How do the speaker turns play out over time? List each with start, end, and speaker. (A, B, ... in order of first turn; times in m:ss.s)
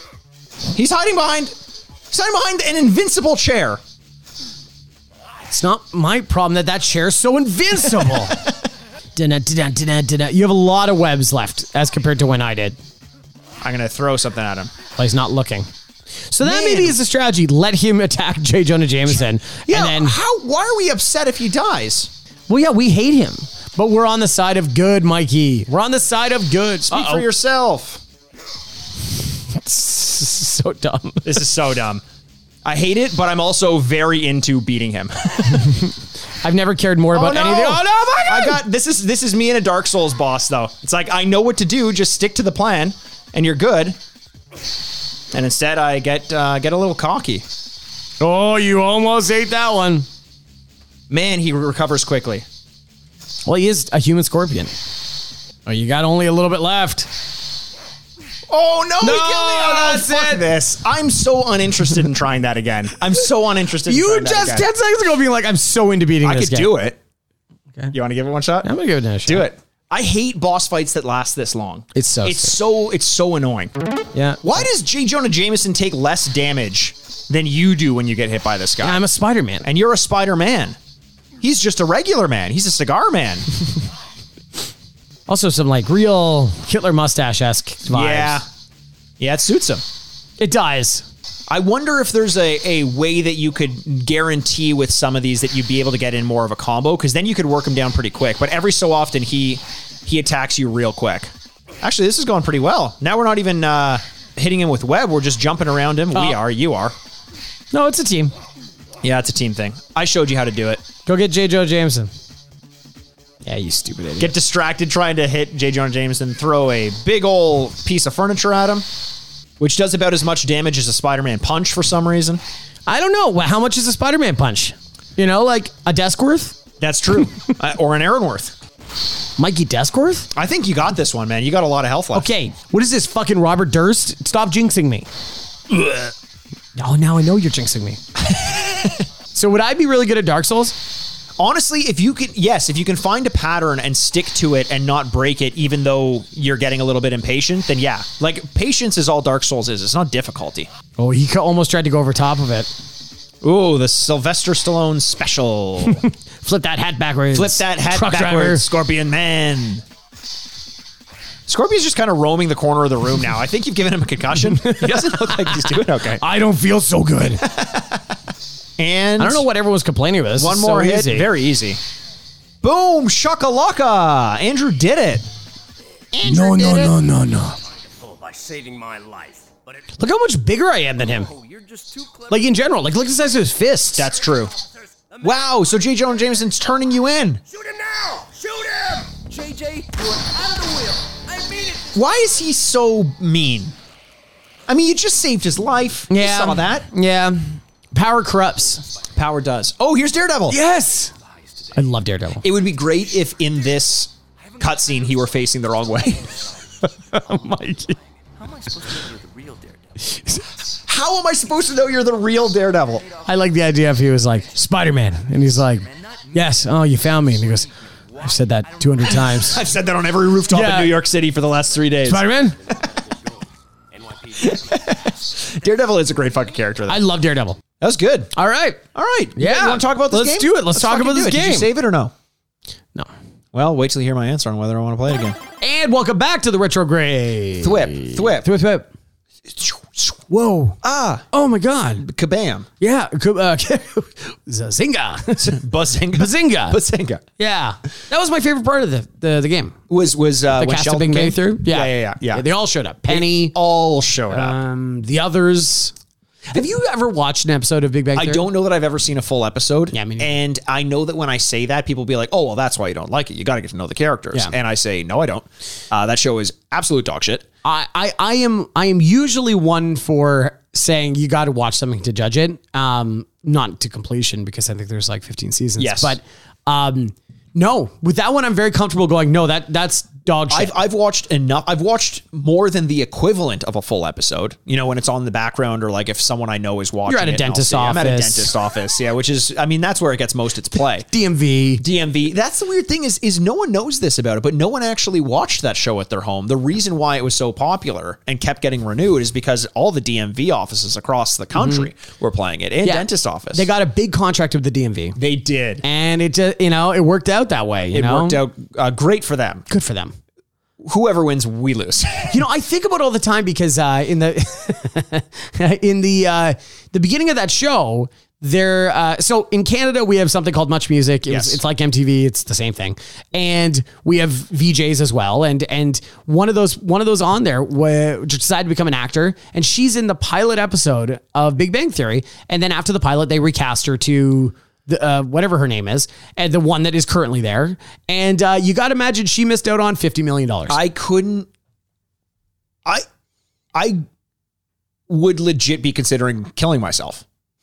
0:00.7-0:01.5 A
0:02.1-0:03.8 A
0:05.5-0:08.5 B
0:08.0-0:08.3 A
0:09.1-0:12.8 B
0:13.6-0:14.7 A
0:14.9-0:15.7 B
0:16.2-0:20.2 B
0:16.4-0:17.0 A
0:19.6-0:22.1 A
0:22.5-0:27.2 B
0:26.9-0:28.0 A
0:29.5-0:31.4 B
0:31.2-0:32.0 A
0:32.6-0:35.8 A
0:35.5-0:38.6 B
0:37.1-0:44.0 A
0:45.3-0:47.4 A
0:48.2-0:50.1 B
0:51.1-0:52.4 A
0:53.4-0:54.7 B
0:55.6-0:57.1 B
0:58.5-1:04.7 A
0:59.0-1:00.4 B
1:03.8-1:06.7 B
1:06.2-1:07.0 A
1:07.9-1:08.7 A
1:08.6-1:09.5 B
1:09.2-1:13.7 A
1:11.9-1:12.6 B
1:14.1-1:14.4 B
1:14.4-1:19.0 A
1:18.8-1:19.6 B
1:19.6-1:20.8 A
1:21.4-1:23.4 A
1:25.3-1:28.4 B
1:27.9-1:28.4 A
1:29.2-1:29.8 A
1:30.4-1:31.0 B
1:31.5-1:41.3 A
1:41.8-1:46.9 A
1:47.7-1:48.3 B
1:49.0-1:50.8 A
1:51.0-1:52.1 B
1:53.4-1:54.3 B
1:54.2-1:58.8 A
1:59.6-2:02.4 A
2:02.9-2:06.6 B
2:06.8-2:08.5 A
2:09.4-2:10.3 B
2:10.3-2:12.3 A
2:12.1-2:15.1 B
2:16.8-2:20.8 B
2:21.4-2:30.7 A
2:31.0-2:32.7 B
2:33.4-2:36.0 A
2:35.8-2:38.6 B
2:37.3-2:39.8 A
2:41.5-2:46.2 A
2:44.4-2:47.6 B
2:47.6-2:47.9 A
2:48.8-2:49.4 A
2:49.2-2:51.3 B
2:50.4-2:51.8 A
2:52.6-2:55.2 A
2:56.1-2:57.0 A
2:56.2-2:57.6 B
2:57.4-2:59.9 C
3:00.0-3:01.3 B
3:01.0-3:02.8 C
3:02.3-3:04.1 B
3:03.9-3:04.5 A
3:04.0-3:06.6 C
3:05.2-3:07.4 A
3:07.4-3:12.1 C
3:11.9-3:13.7 A
3:14.7-3:16.9 A
3:16.1-3:18.8 B
3:19.1-3:20.6 A
3:20.5-3:21.1 B
3:21.2-3:21.9 C
3:21.7-3:22.4 B
3:22.4-3:26.4 A
3:24.4-3:30.2 C
3:26.8-3:28.0 B
3:30.0-3:30.4 B
3:30.8-3:33.0 A
3:32.8-3:34.4 C
3:33.2-3:39.6 B
3:35.8-3:39.9 C
3:39.1-3:42.7 A
3:40.5-3:41.0 B
3:42.0-3:42.6 B
3:42.6-3:46.5 C
3:44.4-3:47.0 A
3:46.9-3:47.6 B
3:47.8-3:48.3 A
3:48.3-3:48.8 B
3:48.9-3:52.1 A
3:49.4-3:51.7 B
3:53.5-3:55.4 A
3:55.6-3:58.9 B
3:57.6-3:58.5 A
3:59.5-4:00.2 A
4:00.3-4:00.8 B
4:00.8-4:01.2 A
4:01.3-4:02.1 B
4:02.0-4:02.7 A
4:02.8-4:05.6 B
4:05.4-4:07.2 A
4:06.1-4:06.8 B
4:07.4-4:09.8 B
4:09.9-4:12.4 A
4:10.6-4:13.5 B
4:13.1-4:14.6 A
4:14.3-4:15.9 B
4:16.5-4:18.4 B
4:18.1-4:27.4 A
4:19.9-4:20.4 B
4:27.6-4:40.7 B
4:35.8-4:36.2 A
4:40.5-4:51.1 A
4:47.1-4:48.5 B
4:51.1-4:51.8 B
4:51.8-5:03.7 A
5:01.6-5:01.8 B
5:02.8-5:05.2 B
5:05.2-5:05.8 A
5:05.8-5:08.4 B
5:07.9-5:09.6 A
5:09.7-5:10.1 B
5:10.8-5:12.4 A
5:12.3-5:40.8 B
5:21.3-5:21.6 A
5:40.7-5:41.5 A
5:43.7-5:44.0 A
5:45.1-5:47.2 A